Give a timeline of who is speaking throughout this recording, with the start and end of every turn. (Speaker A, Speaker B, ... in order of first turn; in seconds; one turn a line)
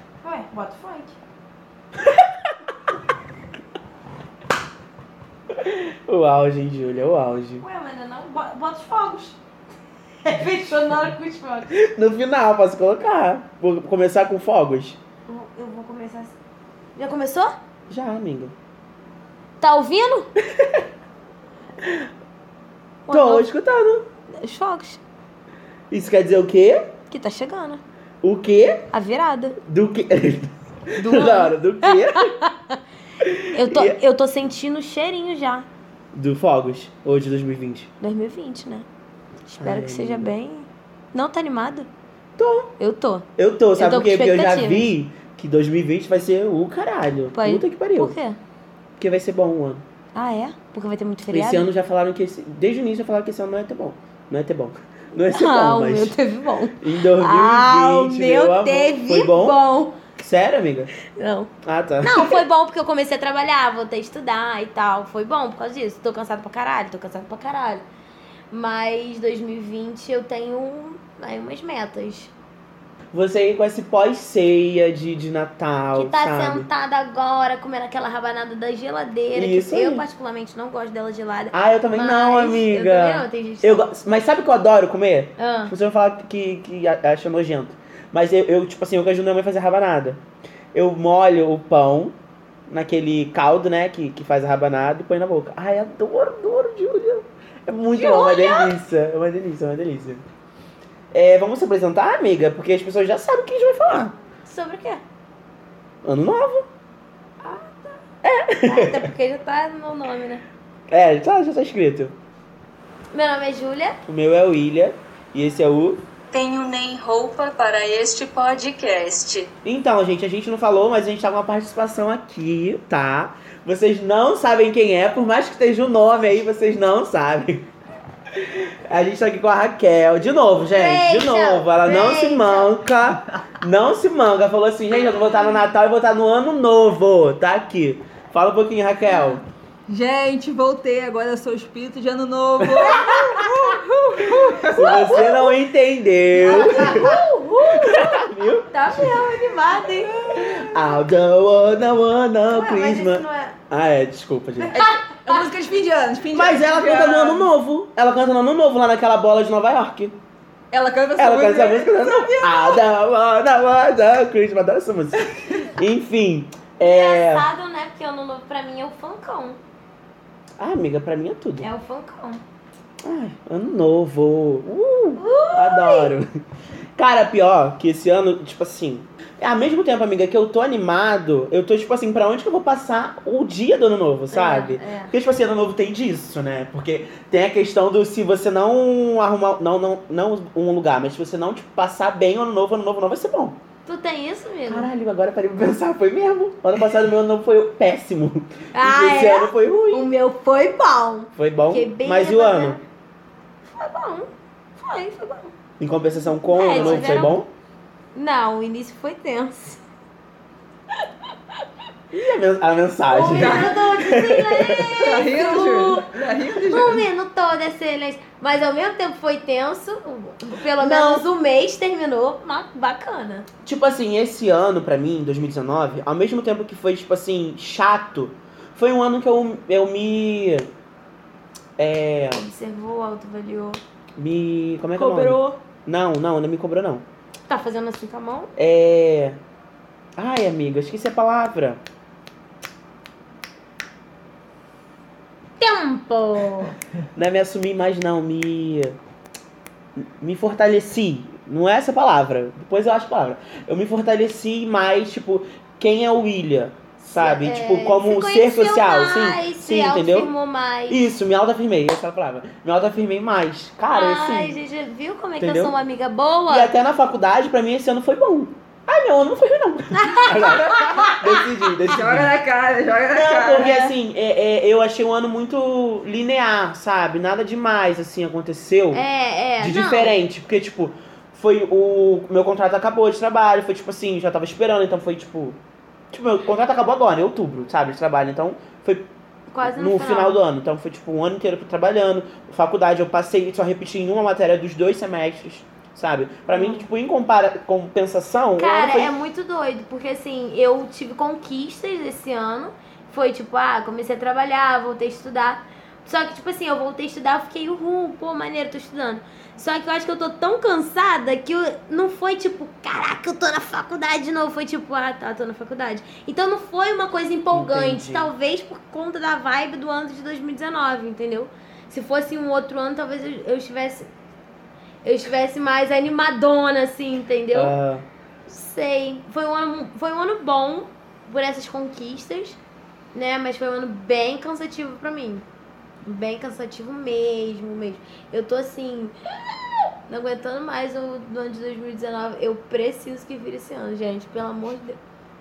Speaker A: 0.2-1.2
Speaker B: 2.0-2.3
Speaker B: 5.5-7.7
Speaker A: 7.6-9.4
Speaker A: 10.2-11.7
Speaker B: 11.7-15.0
Speaker A: 15.3-16.4
Speaker A: 17.0-17.6
Speaker B: 17.9-18.5
Speaker A: 19.6-20.3
Speaker B: 20.6-20.8
Speaker B: 21.8-22.1
Speaker A: 23.1-23.5
Speaker B: 23.1-24.1
Speaker A: 24.3-25.0
Speaker B: 25.9-26.9
Speaker A: 27.1-27.8
Speaker B: 28.2-28.9
Speaker A: 28.9-29.6
Speaker B: 29.6-32.4
Speaker A: 31.0-32.8
Speaker B: 33.2-34.0
Speaker A: 33.5-35.7
Speaker B: 36.1-37.9
Speaker A: 38.0-38.9
Speaker A: 39.5-41.9
Speaker B: 39.6-40.3
Speaker B: 42.4-42.7
Speaker A: 42.8-44.9
Speaker B: 43.4-48.2
Speaker A: 47.3-48.4
Speaker B: 49.0-49.8
Speaker A: 50.1-51.7
Speaker B: 51.3-56.2
Speaker A: 55.3-60.0
Speaker B: 56.8-59.6
Speaker B: 60.2-60.9
Speaker A: 61.1-67.8
Speaker B: 61.6-62.4
Speaker A: 68.5-72.3
Speaker B: 73.1-76.7
Speaker A: 76.0-83.9
Speaker B: 79.3-80.0
Speaker B: 81.5-90.2
Speaker A: 85.4-85.7
Speaker B: 90.7-92.2
Speaker B: 92.7-100.2
Speaker A: 97.9-98.8
Speaker B: 101.1-104.1
Speaker A: 104.5-105.0
Speaker B: 106.0-106.7
Speaker A: 107.4-108.0
Speaker B: 108.2-109.1
Speaker A: 108.7-110.4
Speaker B: 110.9-112.2
Speaker A: 113.1-114.0
Speaker B: 114.0-116.0
Speaker C: 116.3-119.5
Speaker B: 119.6-127.7
Speaker B: 128.3-139.4
Speaker A: 130.6-132.8
Speaker A: 134.9-135.6
Speaker D: 139.1-145.2
Speaker A: 142.8-143.5
Speaker B: 144.6-147.1
Speaker A: 144.8-145.6
Speaker D: 146.4-147.2
Speaker A: 146.4-150.3
Speaker B: 147.7-149.2
Speaker D: 150.0-150.8
Speaker B: 150.3-154.8
Speaker A: 152.5-153.6
Speaker D: 154.7-157.5
Speaker A: 154.8-155.4
Speaker B: 156.3-160.2
Speaker D: 160.7-162.8
Speaker B: 161.2-167.5
Speaker A: 166.8-169.6
Speaker B: 170.6-171.7
Speaker A: 171.6-172.4
Speaker B: 173.0-176.4
Speaker A: 175.2-176.2
Speaker B: 177.0-193.6
Speaker A: 184.3-185.1
Speaker A: 193.9-194.9
Speaker B: 194.7-200.1
Speaker A: 198.7-202.8
Speaker B: 201.3-202.8
Speaker A: 203.7-205.5
Speaker B: 205.8-207.5
Speaker A: 206.4-207.4
Speaker D: 206.7-207.3
Speaker A: 208.2-209.8
Speaker B: 212.1-215.1
Speaker A: 213.1-223.5
Speaker D: 213.3-213.8
Speaker D: 214.9-217.1
Speaker B: 220.8-221.2
Speaker B: 223.6-230.7
Speaker B: 231.8-232.4
Speaker A: 232.3-233.8
Speaker B: 234.2-237.1
Speaker A: 235.0-235.6
Speaker A: 237.5-238.5
Speaker B: 238.6-239.4
Speaker B: 240.2-241.8
Speaker A: 245.6-246.8
Speaker B: 247.2-249.0
Speaker B: 250.0-260.3
Speaker A: 257.1-261.0
Speaker B: 260.9-264.6
Speaker A: 263.9-266.7
Speaker B: 265.4-265.8
Speaker B: 266.5-272.4
Speaker A: 269.9-271.3
Speaker D: 270.8-271.1
Speaker D: 271.9-273.9
Speaker B: 273.1-279.0
Speaker A: 278.9-280.2
Speaker B: 279.6-285.6
Speaker B: 286.1-289.1
Speaker A: 289.5-290.4
Speaker B: 289.6-299.1
Speaker A: 296.5-296.9
Speaker A: 298.6-324.1
Speaker B: 317.5-318.3
Speaker A: 325.0-327.8
Speaker B: 327.5-328.1
Speaker A: 328.5-332.6
Speaker A: 333.1-335.4
Speaker A: 336.0-345.0